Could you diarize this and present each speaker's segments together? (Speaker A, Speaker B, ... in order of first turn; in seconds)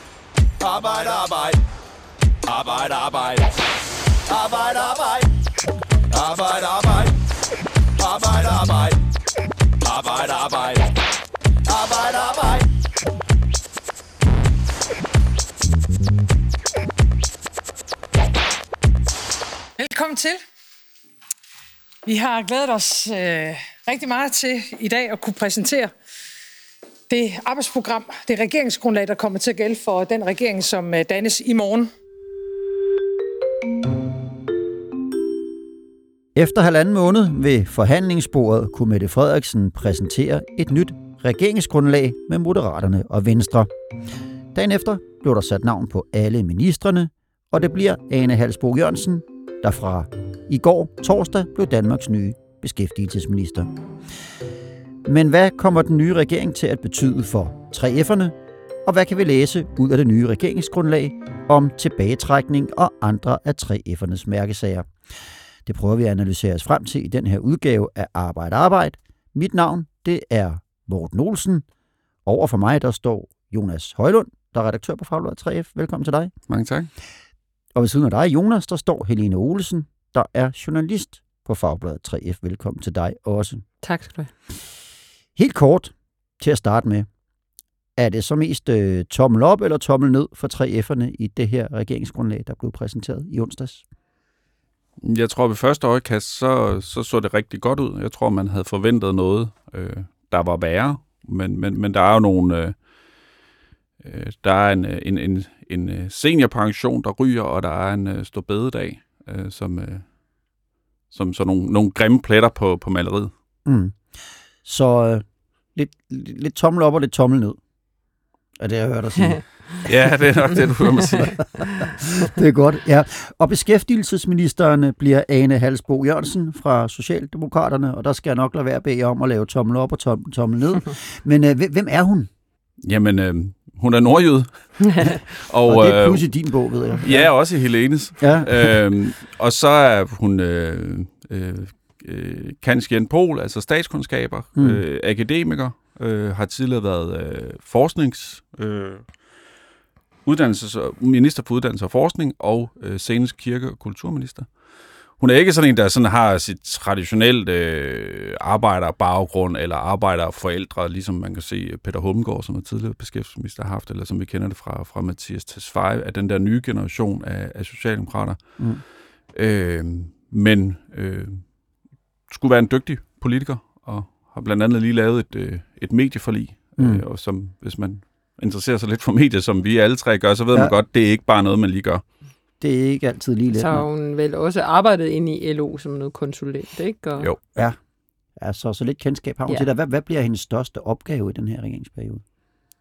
Speaker A: 0.6-1.6, 2.5-3.5, 4.3-5.3, 6.1-7.1, 8.0-9.0, 9.8-10.9, 11.7-12.7
Speaker B: 19.8-20.4, 22.1-25.9, 27.1-31.9
Speaker C: 36.4-43.7, 44.5-53.7, 55.0-64.9, 65.7-71.7, 72.3-76.3, 77.8-83.6, 85.4-87.1, 88.0-93.8, 113.7-114.0, 114.6-117.6, 118.6-119.4, 121.2-132.3, 135.7-137.3, 138.2-138.8, 144.6-144.8, 176.8-177.0, 182.6-183.8, 188.4-192.2
Speaker D: 76.5-76.9, 95.0-102.8, 104.0-110.0, 111.1-113.3, 119.8-121.4, 132.8-136.2, 137.0-149.1, 150.2-154.5, 155.2-168.4, 169.3-171.4, 172.3-182.0
Speaker E: 83.8-84.3, 183.5-187.3